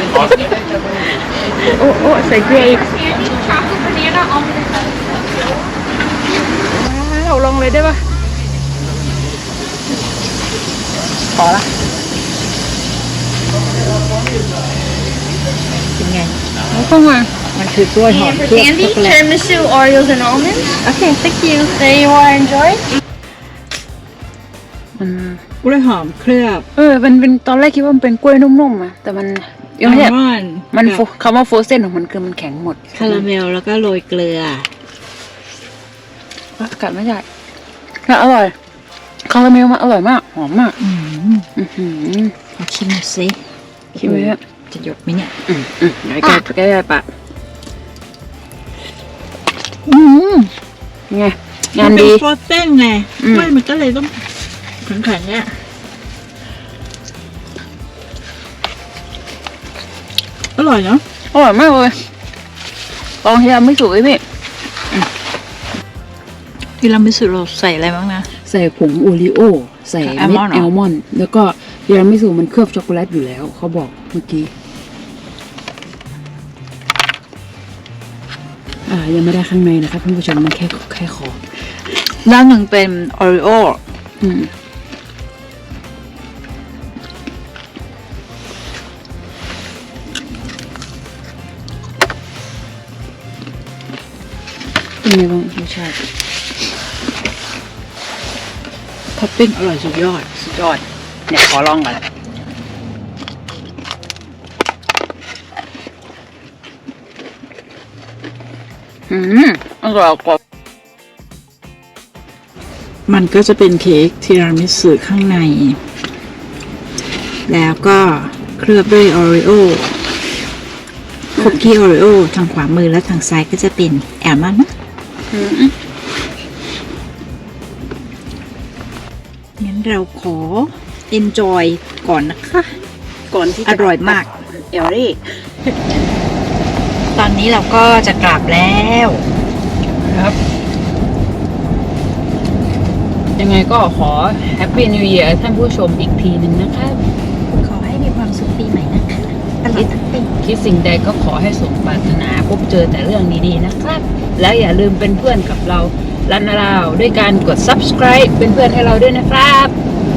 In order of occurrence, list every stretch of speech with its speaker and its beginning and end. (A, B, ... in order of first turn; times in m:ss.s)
0:00.2-0:00.5 A
0:01.6-0:03.1 A
0:06.7-0:08.0 A
0:11.3-0:11.7 A
0:16.0-0:16.4 B
0:16.7-0:17.3 A
0:17.5-0:19.3 B
0:18.1-0:20.8 C
0:20.8-0:21.8 B
0:21.4-0:22.8 C
0:25.0-0:25.4 A
0:25.6-0:26.7 B
0:26.8-0:30.1 A
0:29.8-0:31.0 B
0:30.7-0:33.2 A
0:32.9-0:34.7 B
0:36.6-0:37.2 A
0:38.1-0:38.6 A
0:39.3-0:40.8 A
0:40.8-0:41.5 B
0:41.6-0:42.3 A
0:42.6-0:43.4 B
0:44.0-0:44.4 A
0:44.0-0:45.4 B
0:45.5-0:47.1 A
0:49.8-0:50.5 B
0:51.1-0:52.2 A
0:51.8-0:54.2 B
0:53.2-0:53.5 A
0:54.8-0:55.6 B
1:00.6-1:01.0 B
1:01.3-1:02.0 A
1:03.2-1:04.2 A
1:06.8-1:08.3 B
1:08.3-1:14.5 A
1:10.0-1:10.7 B
1:18.9-1:21.4 A
1:22.2-1:23.8 B
1:24.2-1:24.5 A
1:35.0-1:36.0 A
1:39.2-1:40.5 B
1:40.5-1:42.0 A
1:49.1-1:50.4 A
1:53.1-1:55.8 B
1:57.5-2:00.0 B
2:01.4-2:04.7 B
2:01.4-2:01.6 A
2:05.3-2:05.7 A
2:09.6-2:12.8 B
2:13.3-2:15.7 A
2:13.6-2:14.3 B
2:17.2-2:19.3 B
2:20.0-2:20.4 A
2:23.4-2:27.0 A
2:27.5-2:30.3 B
2:30.4-2:39.7 A